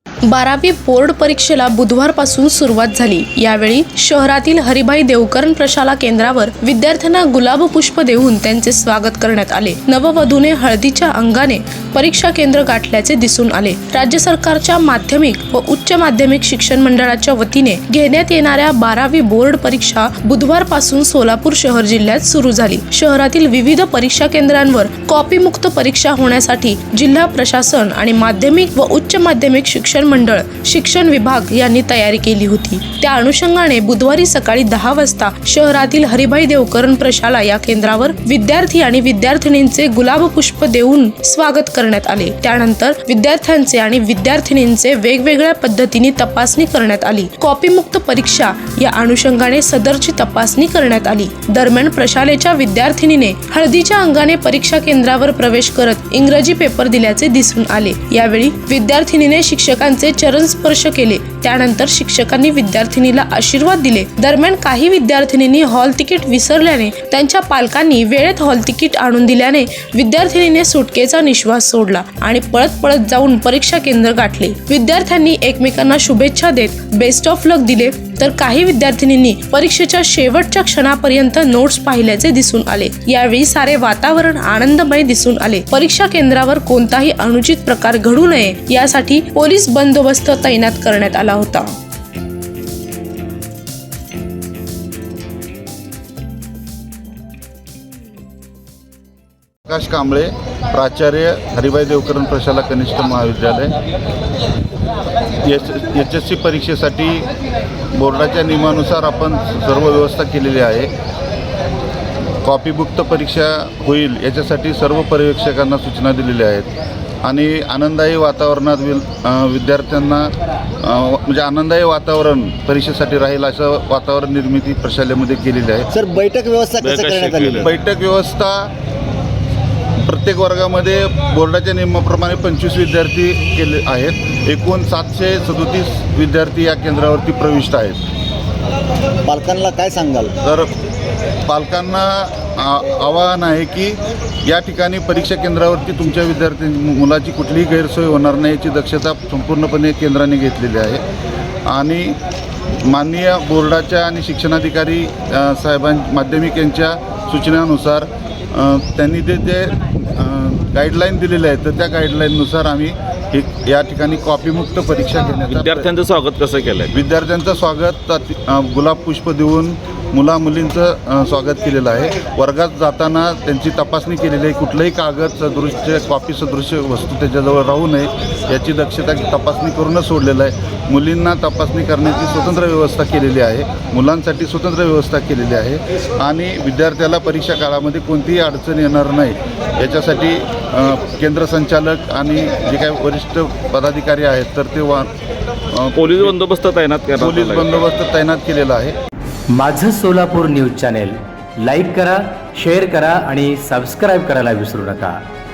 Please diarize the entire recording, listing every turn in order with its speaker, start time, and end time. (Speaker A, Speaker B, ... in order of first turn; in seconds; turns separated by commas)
Speaker A: 0.3-91.8, Speaker B: 99.7-103.7, Speaker B: 105.4-107.3, Speaker B: 107.9-110.9, Speaker B: 112.4-116.7, Speaker B: 117.2-120.3, Speaker B: 120.8-125.9, Speaker C: 125.9-127.7, Speaker D: 126.8-127.7, Speaker B: 127.6-128.7, Speaker B: 130.0-138.0, Speaker C: 139.2-140.3, Speaker B: 140.4-140.7, Speaker B: 141.4-151.0, Speaker B: 151.7-152.2, Speaker B: 152.8-165.9, Speaker D: 165.4-166.9, Speaker B: 166.9-195.1, Speaker B: 195.7-196.3, Speaker D: 195.9-197.8, Speaker B: 197.2-198.9, Speaker E: 199.5-205.2